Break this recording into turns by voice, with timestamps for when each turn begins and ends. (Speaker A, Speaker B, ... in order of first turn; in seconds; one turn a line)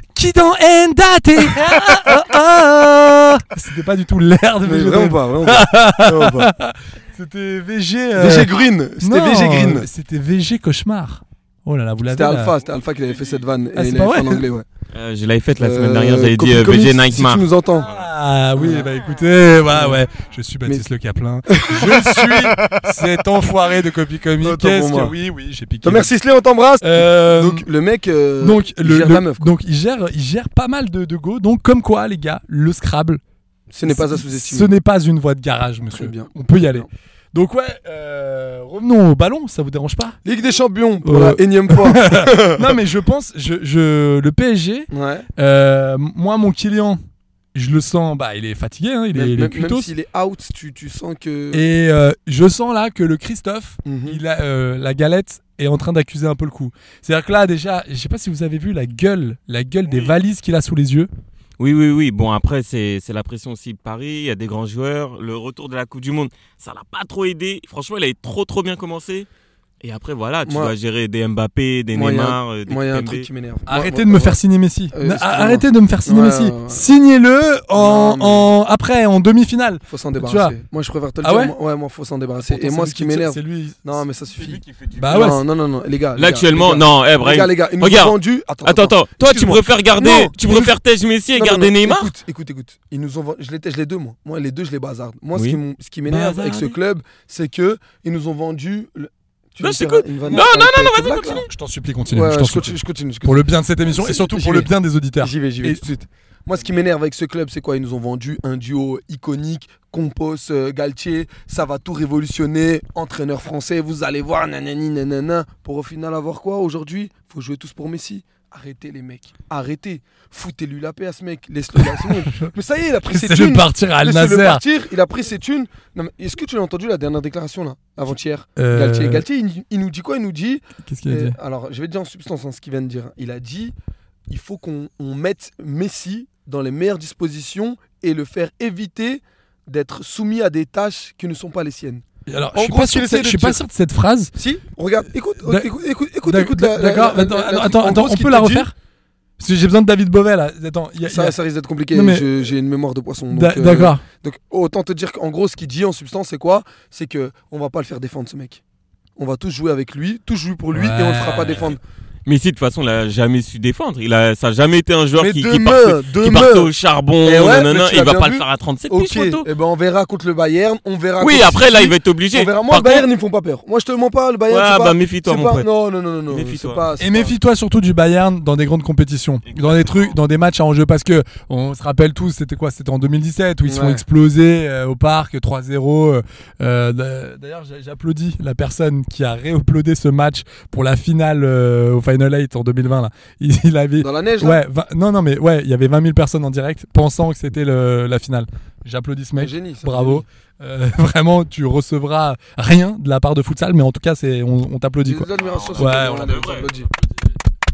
Speaker A: 0.1-12.6
Speaker B: 4.6-6.5
Speaker B: 8.2-9.9
Speaker B: 12.1-14.7
Speaker C: 13.1-13.3
Speaker A: 13.7-14.5
Speaker C: 14.9-17.5
Speaker B: 15.6-17.9
Speaker A: 17.8-26.1
Speaker B: 18.6-18.9
Speaker B: 19.7-20.0
Speaker B: 21.5-22.9
Speaker B: 24.4-25.1
Speaker B: 25.8-29.5
Speaker A: 26.8-27.6
Speaker A: 28.4-33.2
Speaker B: 33.7-34.7
Speaker A: 33.9-40.2
Speaker B: 35.9-36.9
Speaker B: 40.2-42.8
Speaker A: 41.0-47.0
Speaker B: 44.9-45.3
Speaker A: 47.5-49.9
Speaker B: 49.1-51.7
Speaker A: 51.5-61.1
Speaker B: 53.9-54.2
Speaker C: 61.6-69.3
Speaker C: 69.8-73.3
Speaker B: 70.5-70.7
Speaker B: 71.9-74.4
Speaker A: 73.7-80.6
Speaker B: 74.9-76.8
Speaker B: 77.8-78.5
Speaker B: 79.9-90.7
Speaker A: 81.2-81.5
Speaker A: 82.5-83.9
Speaker C: 84.4-85.4
Speaker A: 85.0-85.4
Speaker C: 86.2-92.1
Speaker B: 91.3-101.5
Speaker A: 96.1-96.8
Speaker C: 99.6-101.5
Speaker A: 101.3-105.9
Speaker B: 102.1-133.8
Speaker A: 121.8-122.5
Speaker A: 123.1-124.6
Speaker A: 128.6-129.2
Speaker A: 130.8-131.4
Speaker B: 134.3-142.0
Speaker A: 142.3-144.3
Speaker B: 142.6-143.6
Speaker B: 144.4-148.7
Speaker A: 145.4-145.7
Speaker A: 146.2-148.7
Speaker A: 149.4-151.4
Speaker B: 151.1-158.6
Speaker A: 151.9-152.3
Speaker A: 153.3-154.0
Speaker B: 159.2-161.8
Speaker A: 160.7-161.8
Speaker C: 162.3-169.5
Speaker B: 165.2-177.3
Speaker C: 171.2-173.1
Speaker C: 174.5-175.7
Speaker C: 176.3-176.9
Speaker A: 177.0-206.8
Speaker C: 179.5-180.2
Speaker B: 183.7-184.0
Speaker B: 194.0-194.6
Speaker B: 199.4-200.2
Speaker B: 205.1-206.9
Speaker C: 205.4-206.7